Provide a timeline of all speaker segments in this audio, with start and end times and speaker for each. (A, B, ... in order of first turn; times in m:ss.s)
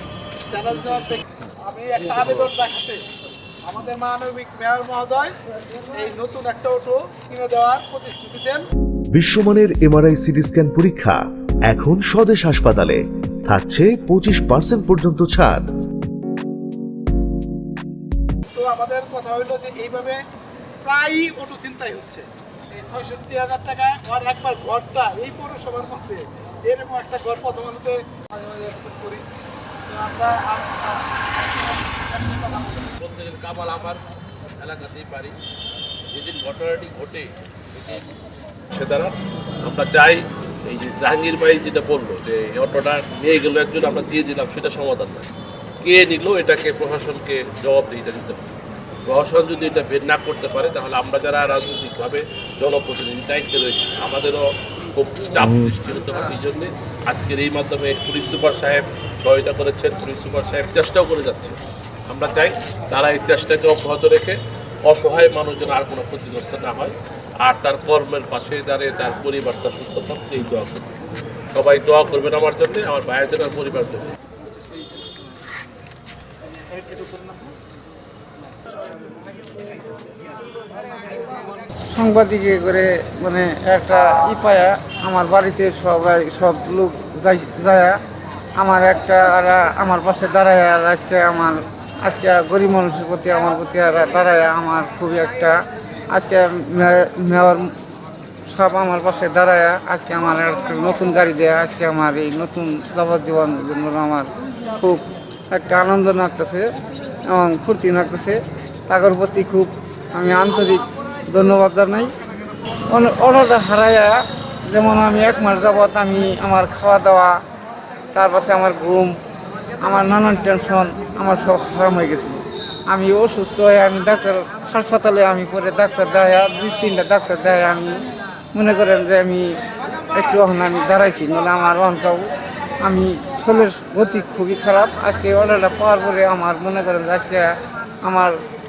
0:00.4-0:03.0 A
0:03.6-0:05.3 A
0:05.9-0:08.6 A
0:09.1-0:15.6 B
0:18.5-0:20.2 A
0:20.8-0:29.2 A
0:29.9-0:32.9 A
0:33.0-0:34.0 C
0:34.6-0:35.3 C
0:36.1-0:38.0 C
0:38.7-0:45.3 C
0:45.8-0:48.5 C
0:49.0-1:01.6 C
1:02.1-1:11.0 C
1:11.5-1:14.1 C
1:16.5-1:17.4 A
1:21.9-1:28.0 D
1:28.6-1:37.8 D
1:38.5-1:46.7 D
1:47.3-1:52.1 D
1:52.9-1:57.4 D
1:58.1-1:59.1 D
1:59.8-2:09.6 D
2:10.1-2:18.4 D